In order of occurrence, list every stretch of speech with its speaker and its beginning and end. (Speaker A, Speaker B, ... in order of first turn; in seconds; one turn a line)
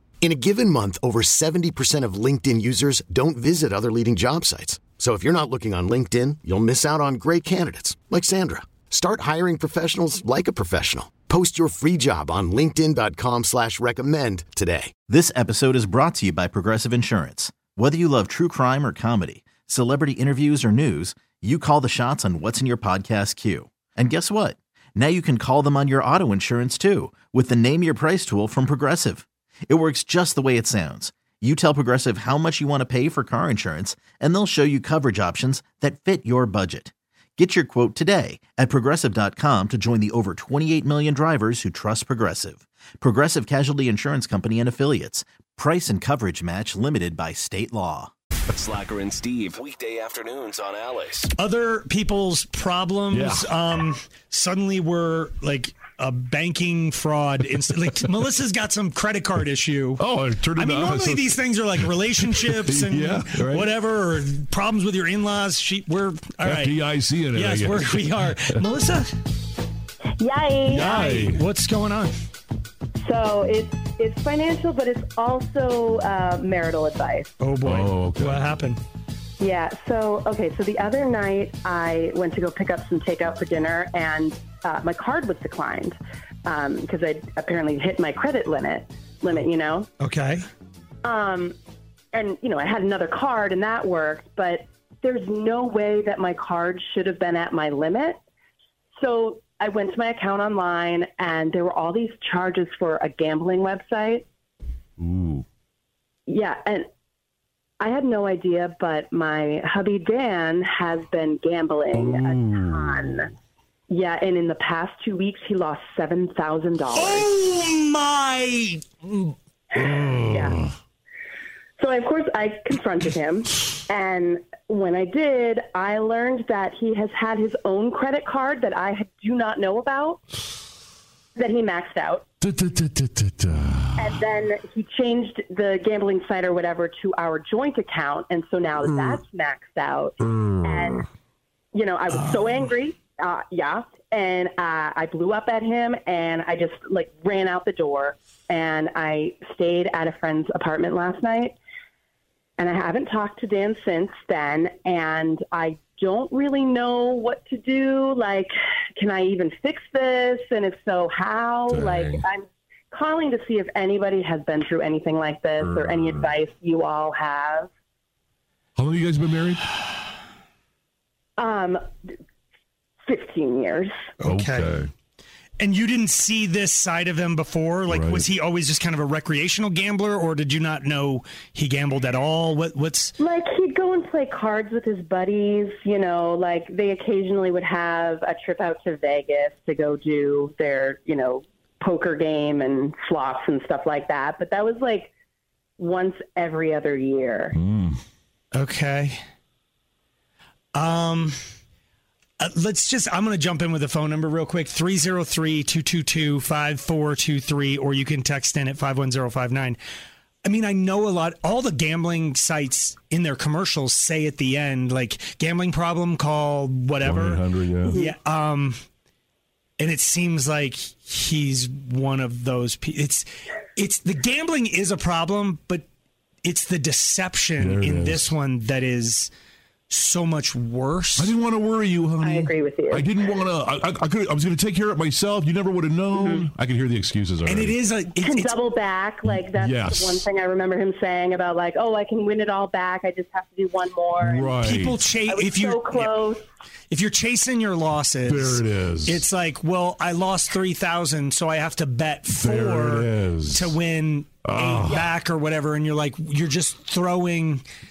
Speaker A: 0.2-14.9
Speaker B: 15.1-48.1
Speaker C: 48.5-51.3
Speaker D: 51.4-60.0
Speaker E: 53.1-53.5
Speaker E: 60.0-61.4
Speaker D: 60.5-66.8
Speaker E: 62.2-63.7
Speaker E: 66.4-68.6
Speaker D: 67.3-69.1
Speaker F: 70.2-71.2
Speaker E: 70.7-71.4
Speaker D: 70.7-72.1
Speaker F: 73.0-77.3
Speaker D: 77.4-78.8
Speaker E: 77.6-78.6
Speaker F: 79.4-89.9
Speaker D: 90.0-90.5
Speaker F: 91.0-91.5
Speaker F: 92.1-98.2
Speaker F: 99.0-104.2
Speaker E: 105.0-105.4
Speaker F: 106.3-106.9
Speaker F: 107.8-113.3
Speaker E: 111.9-113.2
Speaker F: 113.9-117.3
Speaker D: 116.9-119.3
Speaker E: 119.8-120.7
Speaker F: 120.2-120.6
Speaker F: 121.8-130.2
Speaker F: 131.3-132.2
Speaker E: 132.4-134.3
Speaker F: 134.0-141.1
Speaker E: 138.8-139.2
Speaker E: 140.2-141.0
Speaker F: 141.7-151.6
Speaker D: 142.1-142.7
Speaker F: 152.6-167.7
Speaker E: 161.7-162.2
Speaker E: 165.6-166.3
Speaker E: 168.8-169.6
Speaker F: 171.4-171.8
Speaker F: 173.1-174.0
Speaker D: 174.2-174.7
Speaker E: 174.2-174.9
Speaker D: 175.6-183.1
Speaker E: 177.9-178.2
Speaker F: 183.2-195.1
Speaker F: 195.8-197.5
Speaker E: 197.5-198.0
Speaker D: 198.5-199.2
Speaker D: 200.7-201.4
Speaker D: 202.4-209.8
Speaker D: 210.4-218.8
Speaker E: 217.0-218.0
Speaker F: 217.9-218.1
Speaker D: 219.8-225.8
Speaker D: 226.4-229.3
Speaker E: 227.6-228.3
Speaker D: 229.9-231.3
Speaker E: 231.2-237.7
Speaker F: 232.2-233.1
Speaker F: 236.2-236.4
Speaker D: 237.4-238.6
Speaker F: 238.2-244.6
Speaker E: 239.2-240.2
Speaker E: 244.2-245.0
Speaker D: 244.6-246.2
Speaker F: 245.3-246.4
Speaker D: 246.9-257.6
Speaker E: 248.3-249.2
Speaker E: 252.3-253.8
Speaker E: 254.4-255.1